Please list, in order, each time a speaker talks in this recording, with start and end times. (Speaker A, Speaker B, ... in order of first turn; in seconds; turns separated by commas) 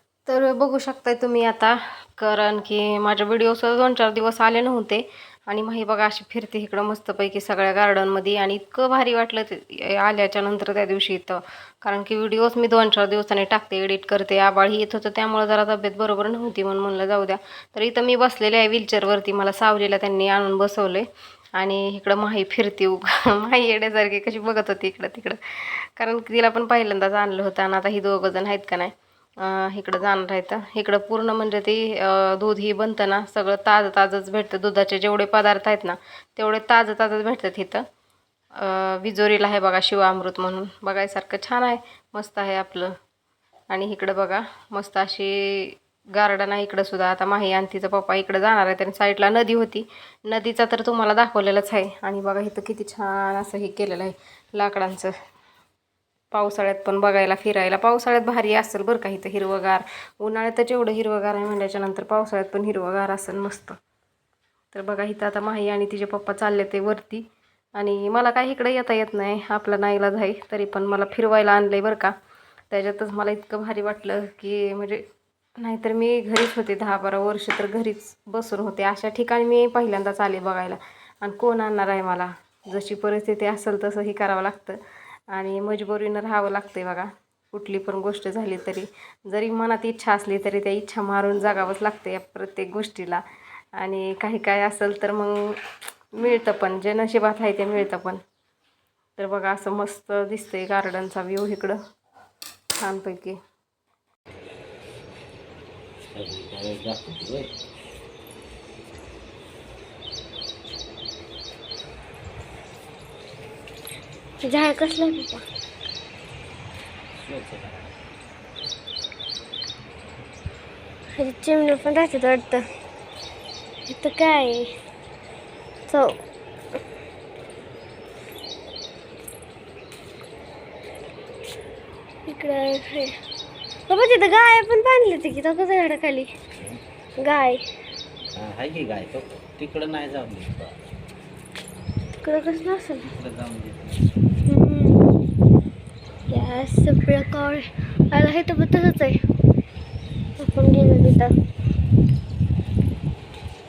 Speaker A: 0.2-37.8, Speaker A: 38.6-42.9, Speaker A: 43.7-55.1, Speaker A: 56.3-63.8, Speaker A: 64.7-67.2, Speaker A: 67.8-72.1, Speaker A: 72.7-75.0, Speaker A: 75.6-84.8, Speaker A: 85.3-93.2, Speaker A: 93.8-95.6, Speaker A: 96.2-98.2, Speaker A: 99.2-101.8, Speaker A: 102.8-103.4, Speaker B: 106.1-107.5, Speaker C: 114.4-115.4, Speaker B: 117.2-118.0, Speaker C: 121.2-122.7, Speaker C: 123.9-124.7, Speaker C: 125.9-126.2, Speaker C: 132.3-133.1, Speaker C: 133.9-136.3, Speaker C: 137.2-137.6, Speaker B: 138.3-140.8, Speaker C: 142.2-143.1, Speaker B: 143.1-144.2, Speaker C: 144.5-145.1, Speaker C: 146.3-149.2, Speaker C: 150.4-151.3